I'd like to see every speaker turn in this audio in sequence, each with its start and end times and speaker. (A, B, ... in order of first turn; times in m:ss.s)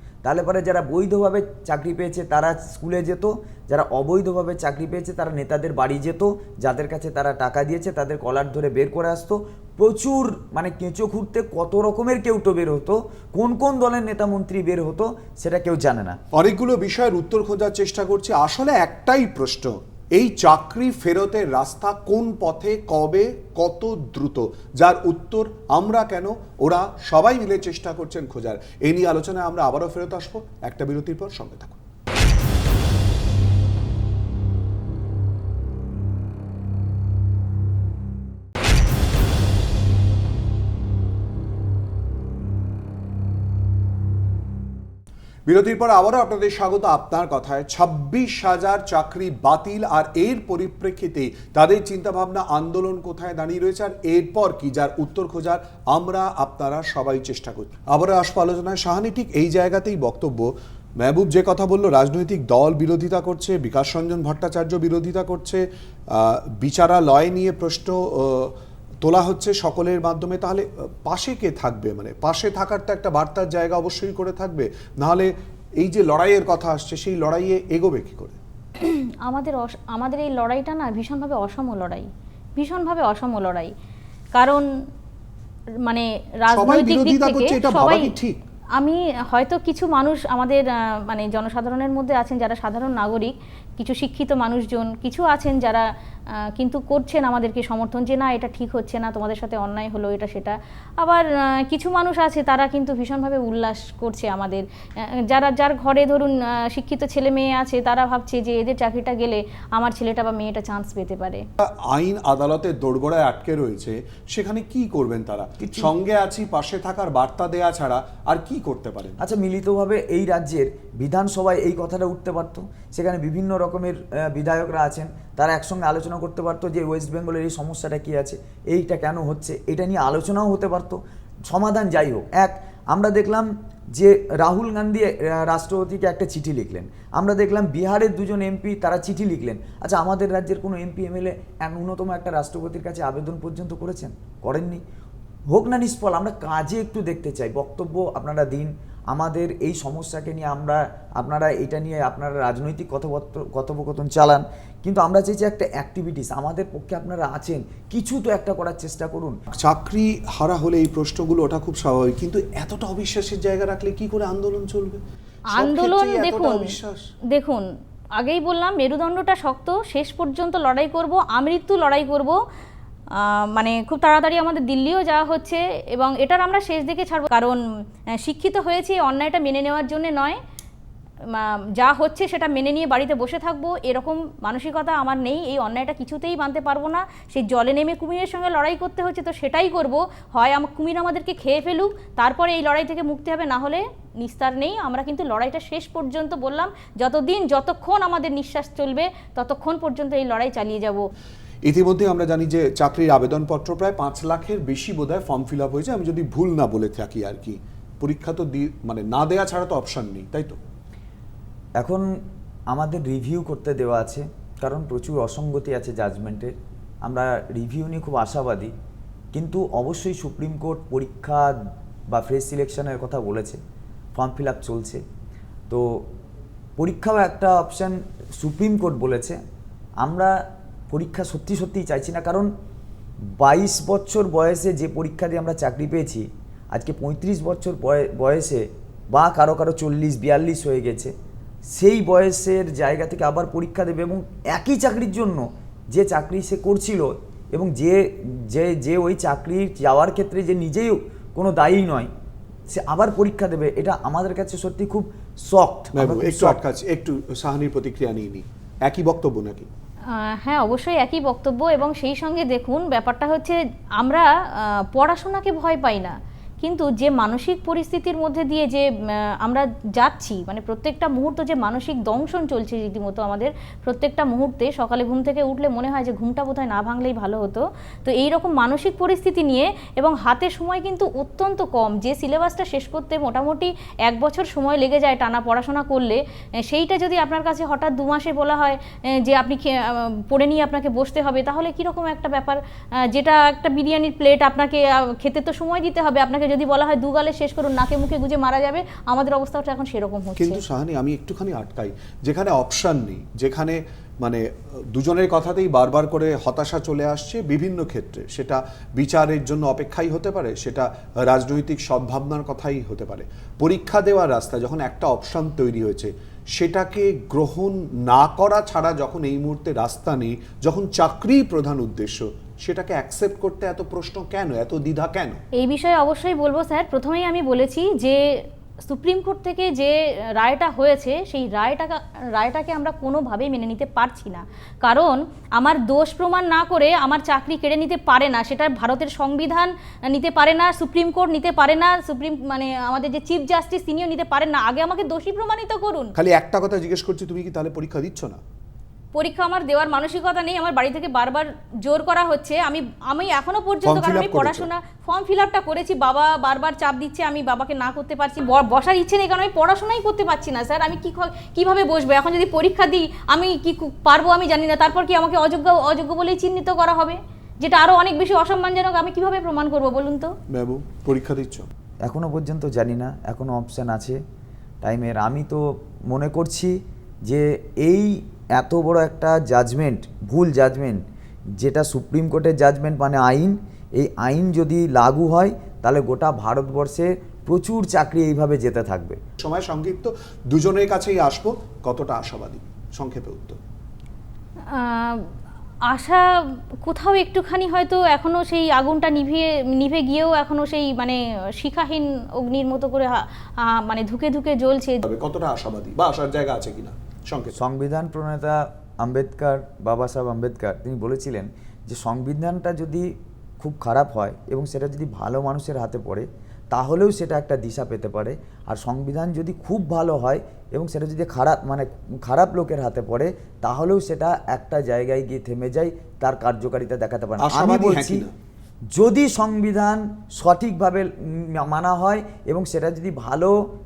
0:00.2-0:16.2 A
0:16.3-0:31.8 B
0:45.4-1:18.4 B
1:18.8-1:23.7 C
1:24.3-1:24.7 C
1:25.8-1:28.1 C
1:26.5-1:28.4 B
1:28.8-1:35.9 C
1:36.6-1:51.4 C
1:51.6-1:59.2 B
1:55.6-1:55.9 A
1:59.2-2:24.8 A
2:25.5-2:39.4 A
2:39.5-2:45.0 B
2:45.5-2:47.0 B
2:45.5-2:46.7 C
2:47.3-2:52.4 C
2:53.1-2:57.6 C
2:58.2-3:00.4 C
3:01.3-3:21.1 C
3:21.6-3:30.6 B
3:31.8-3:32.2 A
3:32.7-3:38.7 A
3:39.3-3:41.5 A
3:42.1-3:43.6 A
3:44.1-3:45.0 A
3:45.7-3:46.1 A
3:46.8-3:49.4 A
3:50.0-3:50.4 A
3:50.9-3:52.5 A
3:53.3-4:01.1 A
4:01.7-4:12.1 A
4:12.7-4:16.6 A
4:15.9-4:19.7 B
4:20.1-5:00.6 C
5:00.4-5:25.4 B
5:25.5-5:46.1 C
5:46.2-5:48.4 B
5:49.1-6:10.3 C
5:53.8-5:54.7 B
6:10.5-6:11.7 B
6:12.0-6:14.2 A
6:14.8-6:21.0 A
6:21.6-6:29.2 A
6:29.4-6:33.6 B
6:34.7-6:35.3 C
6:35.9-6:36.3 C
6:36.8-6:45.0 C
6:45.0-6:47.6 B
6:47.5-7:08.2 A
7:07.4-7:08.3 B
7:08.9-7:13.6 A